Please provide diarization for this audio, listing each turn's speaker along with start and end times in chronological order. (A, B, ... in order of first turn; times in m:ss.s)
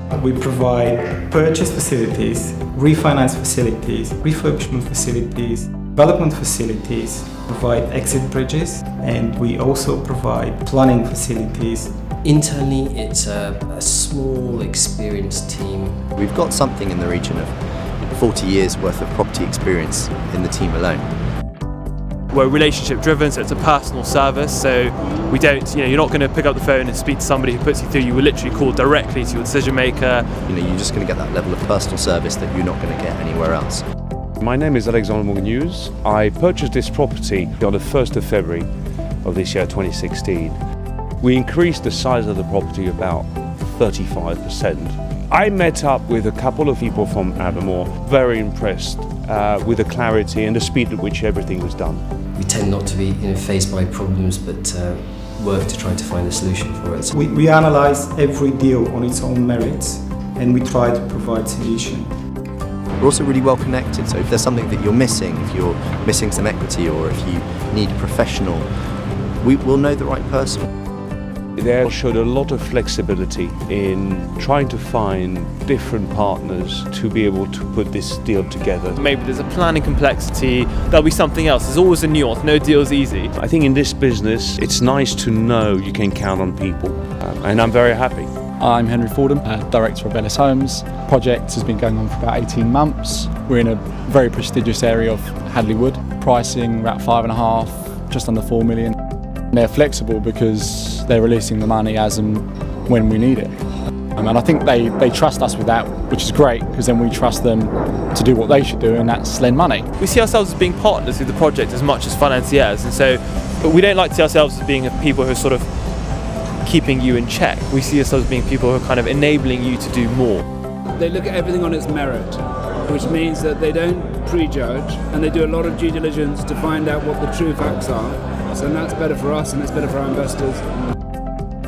0:00.1-0:12.0 A
0:12.3-0:16.0 B
0:16.2-0:17.5 C
0:18.1-0:21.1 C
0:22.3-0:30.3 D
0:30.5-0:33.8 C
0:34.4-0:38.7 E
0:39.2-0:40.6 E
0:41.2-0:52.0 E
0:52.4-0:57.1 B
0:57.1-1:02.1 A
1:03.0-1:08.7 C
1:09.4-1:10.6 C
1:11.6-1:19.0 E
1:19.0-1:23.3 D
1:23.4-1:28.3 E
1:28.6-1:39.0 F
1:39.5-1:43.6 F
1:44.2-1:49.9 F
1:50.0-1:55.7 D
1:56.6-2:00.4 D
2:01.0-2:10.9 G